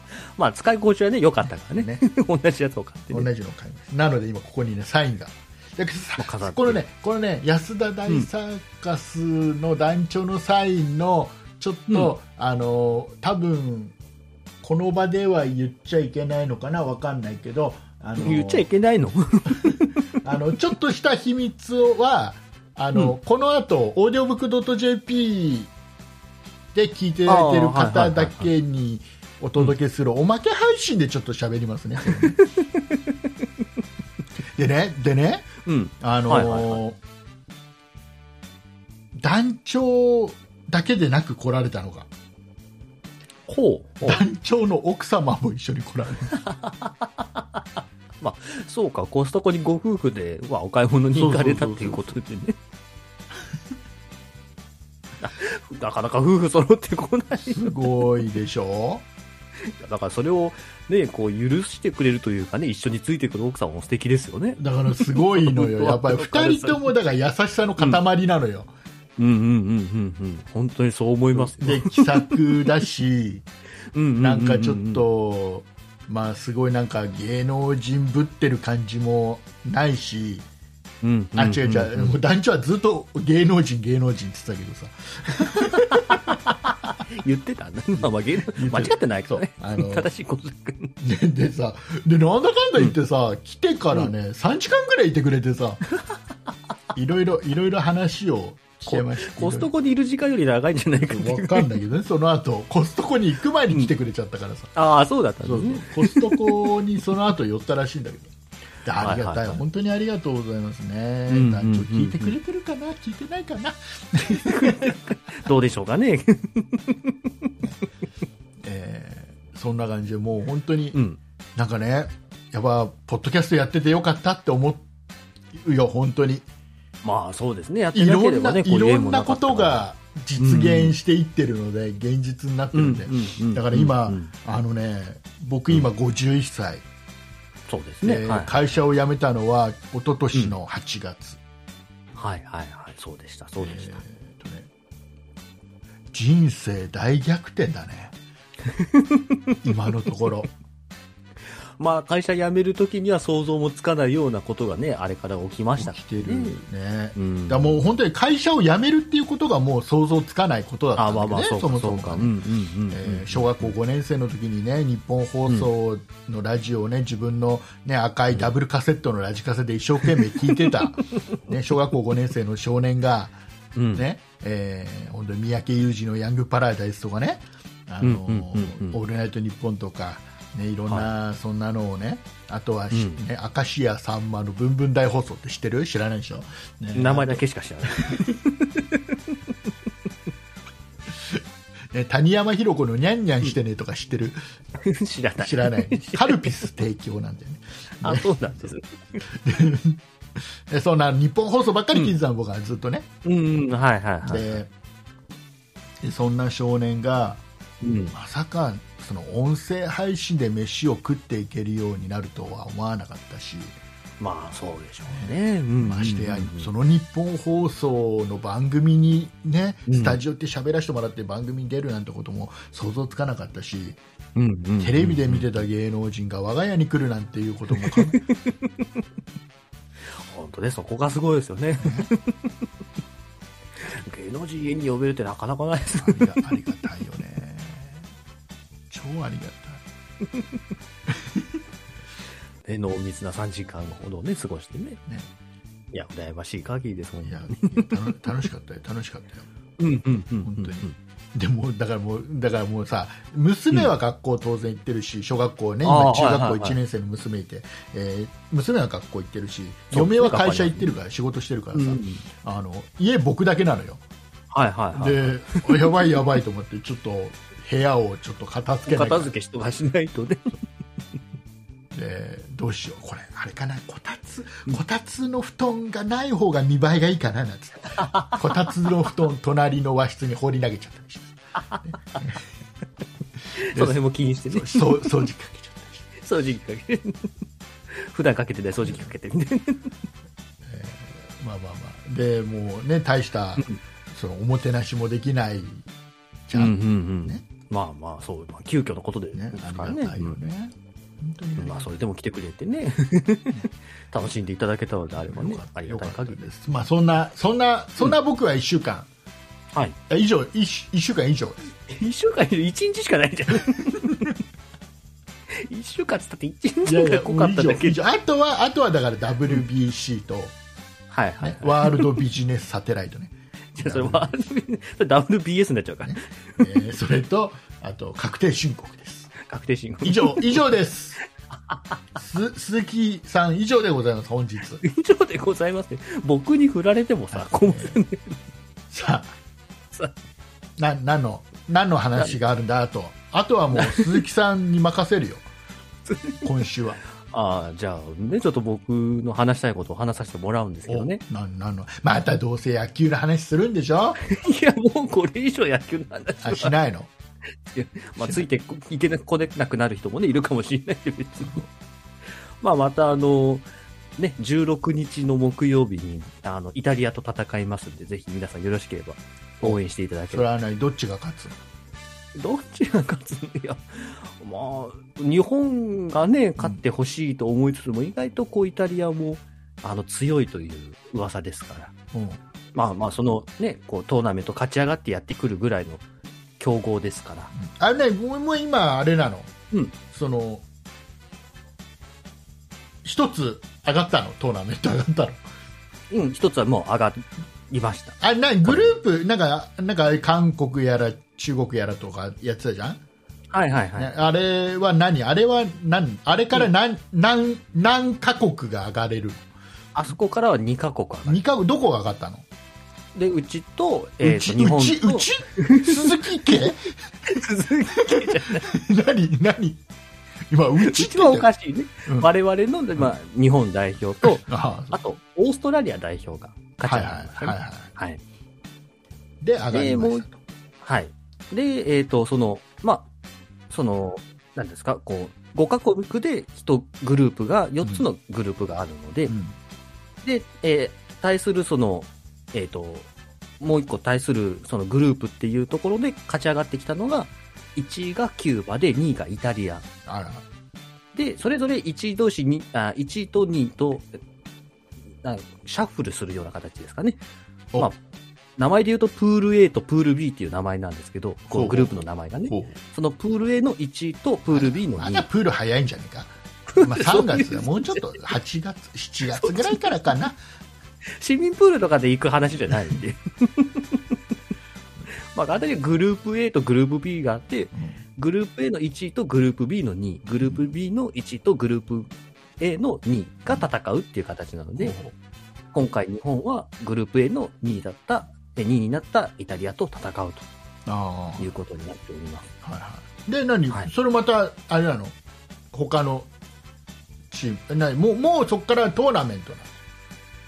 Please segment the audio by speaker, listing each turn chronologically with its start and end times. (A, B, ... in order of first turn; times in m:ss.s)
0:00.4-0:03.3 A
0:01.7-0:02.0 B
0:03.1-0:13.9 B
0:06.2-0:06.8 A
0:14.6-0:18.7 B
0:18.2-0:20.0 A
0:20.2-0:25.7 B
0:26.7-0:32.4 B
0:27.2-0:28.5 A
0:32.1-0:33.4 A
0:34.5-0:37.0 B
0:35.6-0:36.8 A
0:39.2-0:42.1 B
0:43.5-0:44.2 A
0:44.0-0:46.3 B
0:46.3-0:47.6 A
0:48.2-0:52.6 A
0:51.1-0:52.1 B
0:55.2-0:57.9 A
0:57.4-0:59.0 B
0:59.7-1:06.9 A
1:04.6-1:08.7 B
1:09.2-1:12.6 A
1:11.3-1:13.4 B
1:13.9-1:15.0 A
1:14.2-1:20.4 B
1:21.0-1:22.2 A
1:21.3-1:26.3 B
1:25.5-1:30.9 A
1:28.0-1:30.1 B
1:31.0-1:35.8 B
1:36.9-1:39.7 B
1:38.8-1:41.7 A
1:41.0-1:44.7 B
1:44.7-1:46.5 A
1:45.4-1:48.3 B
1:48.8-1:55.0 B
1:49.0-1:49.6 A
1:51.3-1:52.3 A
1:54.3-1:57.5 A
1:58.6-2:01.0 B
2:00.9-2:01.2 A
2:01.6-2:04.8 B
2:05.5-2:06.4 B
2:07.0-2:09.8 A
2:07.9-2:16.8 B
2:10.4-2:10.9 A
2:12.7-2:14.3 A
2:17.7-2:18.6 A
2:18.0-2:21.4 B
2:22.2-2:24.0 A
2:23.6-2:24.7 B
2:26.1-2:28.1 B
2:28.7-2:29.4 A
2:29.6-2:30.5 B
2:31.8-2:36.6 A
2:35.8-2:42.3 B
2:37.1-2:37.8 A
2:41.0-2:43.7 A
2:42.9-2:53.4 B
2:53.7-2:54.1 A
2:54.0-3:08.3 B
2:58.0-2:59.0 A
3:02.9-3:03.2 A
3:06.9-3:09.2 A
3:11.1-3:14.4 B
3:14.8-3:16.6 A
3:15.4-3:23.1 B
3:18.0-3:19.2 A
3:23.2-3:24.6 A
3:24.2-3:24.7 B
3:26.0-3:27.4 B
3:27.8-3:28.1 A
3:28.1-3:33.8 B
3:34.2-3:36.7 A
3:35.1-3:44.0 B
3:39.9-3:40.2 A
3:44.4-3:45.5 A
3:44.8-3:48.2 B
3:47.8-3:48.7 A
3:50.2-3:52.5 A
3:51.8-3:52.1 B
3:53.8-3:56.4 A
3:56.0-3:58.0 B
3:58.9-3:59.8 B
4:01.1-4:01.5 B
4:02.6-4:05.0 A
4:05.9-4:07.9 A
4:07.2-4:09.5 B
4:09.8-4:10.9 A
4:10.4-4:24.0 B
4:15.8-4:16.8 A
4:19.9-4:20.9 A
4:21.7-4:22.2 A
4:24.5-4:26.1 A
4:24.9-4:29.3 B
4:28.9-4:30.6 A
4:31.9-4:42.4 B
4:37.9-4:38.4 A
4:41.7-4:42.2 A
4:43.5-4:45.1 A
4:43.7-4:44.0 B
4:44.5-4:46.1 B
4:46.2-4:47.3 A
4:47.9-4:49.9 A
4:48.8-4:49.1 B
4:50.6-4:55.8 B
4:56.5-4:57.4 B
4:56.5-5:00.4 A
4:59.3-5:01.9 B
5:01.6-5:06.4 A
5:05.2-5:09.1 B
5:10.1-5:11.6 B
5:11.9-5:14.3 A
5:15.5-5:18.0 A
5:16.8-5:20.5 B
5:21.1-5:22.2 A
5:21.4-5:24.3 B
5:23.7-5:26.3 A
5:26.0-5:29.3 B
5:29.4-5:30.6 A
5:30.0-5:31.2 B
5:31.7-5:32.0 A
5:32.2-5:34.8 B
5:34.8-5:38.4 A
5:37.3-5:38.0 B
5:38.9-5:39.3 B
5:40.8-5:45.5 B
5:43.7-5:44.2 A
5:46.1-5:46.4 A
5:46.4-5:47.0 B
5:47.3-5:51.2 A
5:50.9-5:54.2 B
5:54.2-5:56.7 A
5:56.4-5:57.1 B
5:57.7-6:01.7 A
5:58.2-5:58.4 B
6:02.6-6:03.7 A
6:04.2-6:10.4 A
6:09.6-6:11.6 B
6:12.3-6:21.9 A
6:22.1-6:22.4 B
6:22.7-6:26.0 A
6:26.6-6:27.5 A
6:27.6-6:29.5 B
6:30.1-6:30.6 B
6:33.0-6:35.4 B
6:36.1-6:38.9 A
6:38.2-6:43.0 B
6:43.5-6:44.1 A
6:44.0-6:49.4 B
6:49.9-6:51.4 A
6:51.3-6:52.4 B
6:53.1-6:56.7 A
6:54.2-6:56.9 B
6:57.2-6:58.7 A
6:58.0-6:59.8 B
7:00.5-7:01.5 B
7:00.8-7:08.2 A
7:04.2-7:05.0 B
7:06.8-7:07.9 B
7:09.4-7:10.4 B
7:09.7-7:10.2 A
7:10.8-7:13.0 A
7:13.7-7:19.3 A
7:19.3-7:19.5 B
7:20.2-7:23.1 A
7:23.6-7:29.8 A
7:30.0-7:30.4 B
7:31.1-7:34.2 A
7:35.2-7:37.2 A
7:38.6-7:45.2 A
7:41.5-7:42.7 B
7:44.5-7:50.4 B
7:46.7-7:48.0 A
7:49.3-7:49.9 A
7:51.2-7:54.2 A
7:55.3-8:05.0 A
8:04.8-8:05.1 B
8:05.7-8:10.4 A
8:10.8-8:11.5 B
8:11.4-8:12.5 A
8:12.6-8:15.1 B
8:15.7-8:16.3 B
8:17.3-8:19.7 B